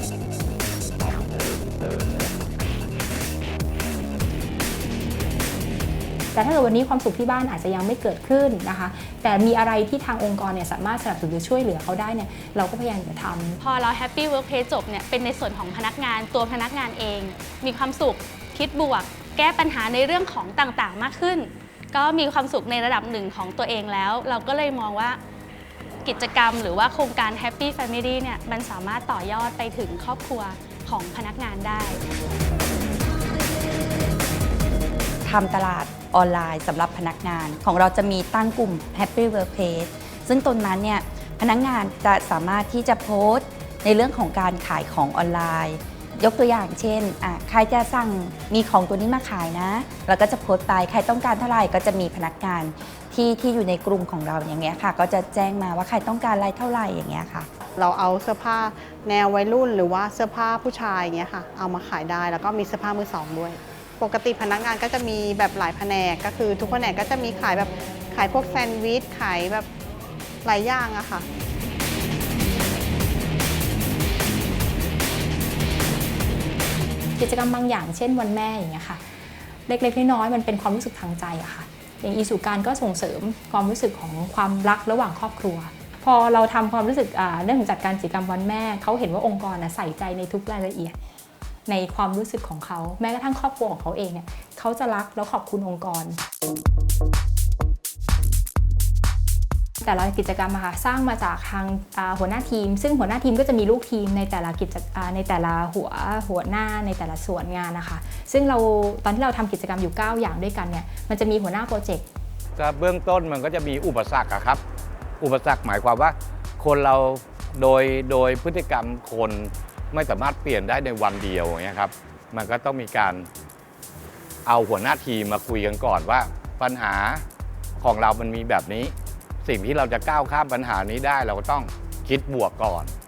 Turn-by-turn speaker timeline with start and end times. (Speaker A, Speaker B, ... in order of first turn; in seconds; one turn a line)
Speaker A: 6.3-13.6
Speaker B: 13.6-25.2
Speaker B: 26.0-32.0
Speaker C: 35.2-57.5
Speaker D: 57.8-69.7
Speaker D: 70.4-71.3
Speaker A: 77.2-79.0
Speaker A: 79.7-91.0
Speaker A: 91.7-96.2
Speaker A: 99.8-112.0
Speaker E: 112.6-114.6
Speaker E: 115.2-123.3
Speaker E: 124.5-127.2
Speaker E: 127.8-132.9